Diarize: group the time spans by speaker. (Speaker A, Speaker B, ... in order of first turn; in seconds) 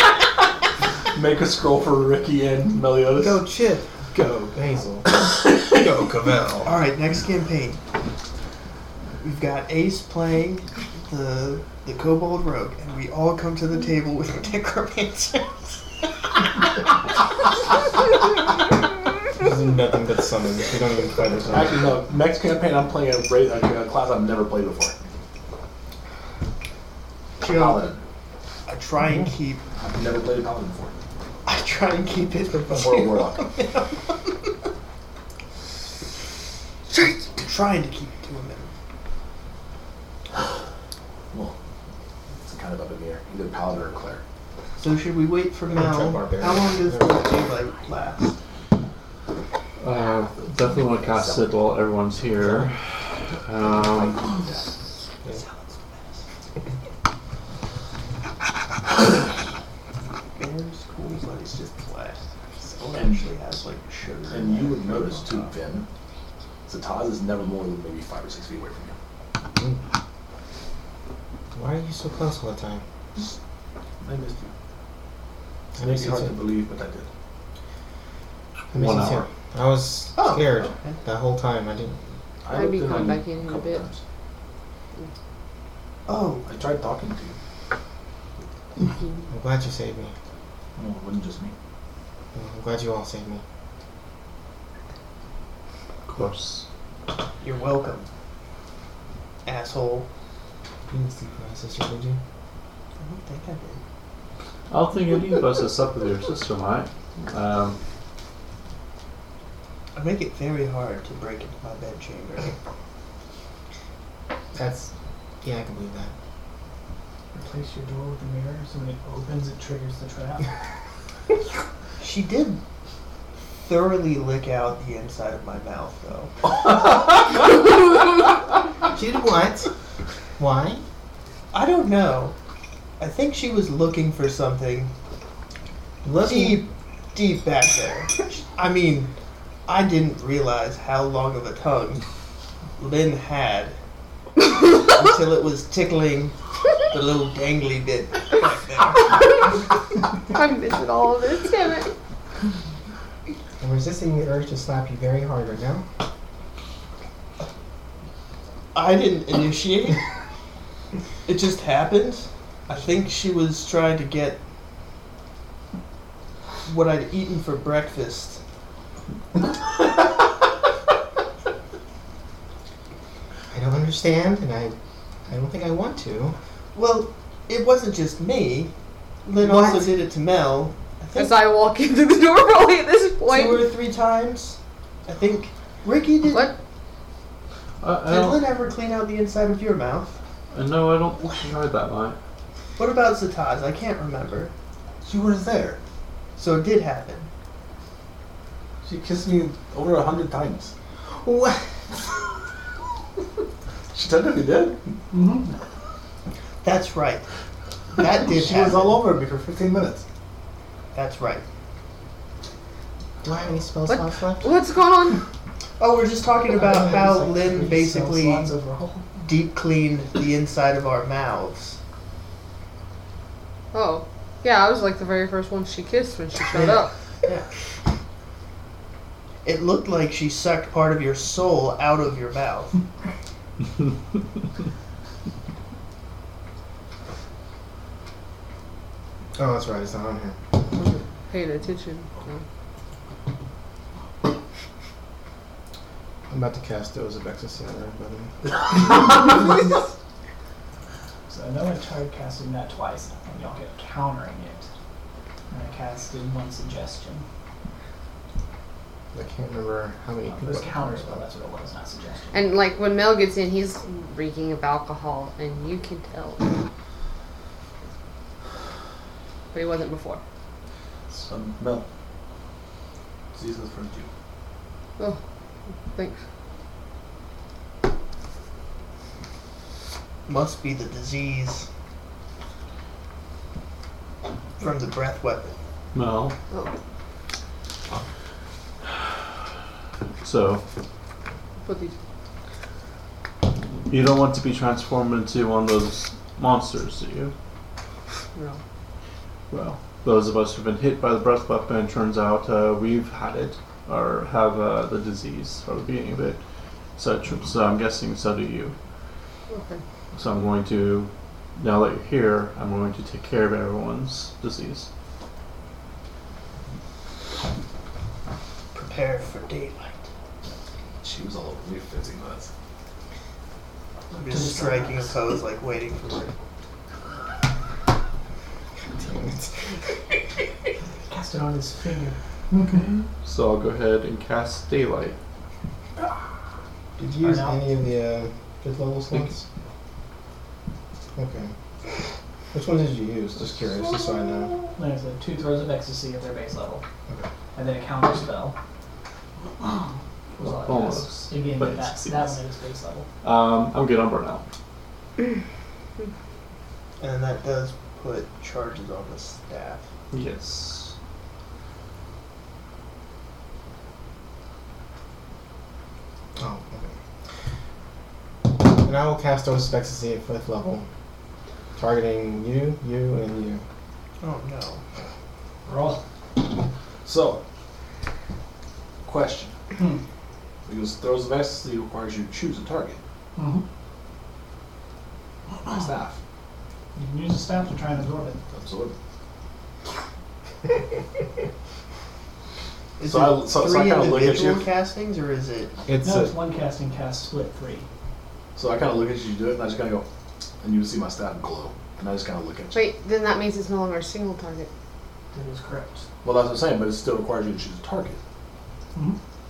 Speaker A: 1.1-3.4, 21.4-25.0, 27.4-28.0, 29.8-31.0, 32.7-33.5, 42.4-44.2, 50.3-51.6, 53.7-54.7, 63.0-63.2, 64.3-65.9, 66.7-69.0, 74.0-74.5, 75.8-77.1, 82.4-84.0, 86.5-87.4, 90.8-91.5, 195.0-195.8, 198.8-200.7, 203.9-204.8, 208.2-210.1, 271.1-271.8, 273.3-274.1, 321.0-322.5, 377.0-377.4, 379.0-379.6, 380.7-383.0, 385.6-386.2, 388.5-388.9, 393.0-394.7, 398.6-400.1, 400.6-402.8, 406.2-408.2
Speaker B: 3.1-5.1, 5.7-6.7, 19.4-22.0, 45.7-47.2, 49.9-50.3, 52.4-52.7, 71.5-72.8, 75.8-76.5, 78.7-82.2, 89.3-90.2, 92.3-93.4, 100.9-102.2, 114.5-116.1, 128.8-129.7, 130.4-130.8, 136.0-136.7, 153.6-155.9, 173.5-176.4, 179.4-179.9, 201.1-202.0, 213.2-214.6, 239.4-240.4, 246.3-248.9, 259.1-261.3, 328.9-329.8, 337.0-339.4, 341.2-341.5, 342.5-344.6, 366.4-366.9, 368.6-370.9, 371.8-373.6, 395.9-396.3
Speaker C: 6.7-7.8, 9.2-16.1, 27.4-27.9, 28.7-29.6, 31.5-34.5, 36.9-38.7, 44.8-48.4, 55.3-56.2, 60.4-65.5, 80.2-81.0, 86.1-86.5, 97.4-98.1, 99.5-100.1, 103.0-103.8, 109.9-112.5, 122.0-122.6, 123.7-126.3, 131.5-132.3, 133.0-134.9, 136.2-139.1, 139.7-142.0, 142.8-143.8, 144.7-146.4, 146.9-149.3, 158.7-160.0, 161.3-164.4, 166.7-168.4, 176.8-178.7, 179.2-181.4, 183.3-186.5, 188.1-190.2, 192.8-194.5, 196.4-197.3, 206.6-207.3, 207.9-209.0, 210.9-211.4, 215.8-218.5, 219.2-221.8, 226.5-227.5, 229.4-232.8, 280.3-281.7, 284.6-285.5, 318.7-320.1, 324.1-326.3, 357.0-359.9, 374.2-374.8, 393.0-395.7
Speaker D: 49.8-54.4, 78.7-79.3, 96.1-96.7, 104.7-107.8, 187.8-188.5, 190.5-192.2, 285.9-286.4, 290.2-290.6, 293.9-297.3, 299.5-306.4, 307.0-308.8, 310.1-314.9, 332.7-335.2, 350.4-352.4, 353.2-354.5, 360.1-360.9
Speaker E: 82.5-83.8, 150.3-151.9, 181.2-183.6, 186.3-186.6, 213.9-215.2, 223.7-226.9, 240.8-242.4, 262.3-266.5, 269.5-270.2, 275.9-276.2, 291.6-291.9, 298.4-298.6, 309.5-309.8, 402.7-404.7
Speaker F: 117.3-120.6, 205.1-205.6, 216.5-219.1, 251.3-254.7, 255.5-257.2, 260.2-262.4, 324.1-325.2, 331.1-332.8, 337.2-337.6, 344.8-346.8, 347.6-348.6, 350.4-353.1, 375.7-376.0, 379.8-380.0, 383.4-383.6, 387.0-388.4, 396.0-397.9, 405.3-406.1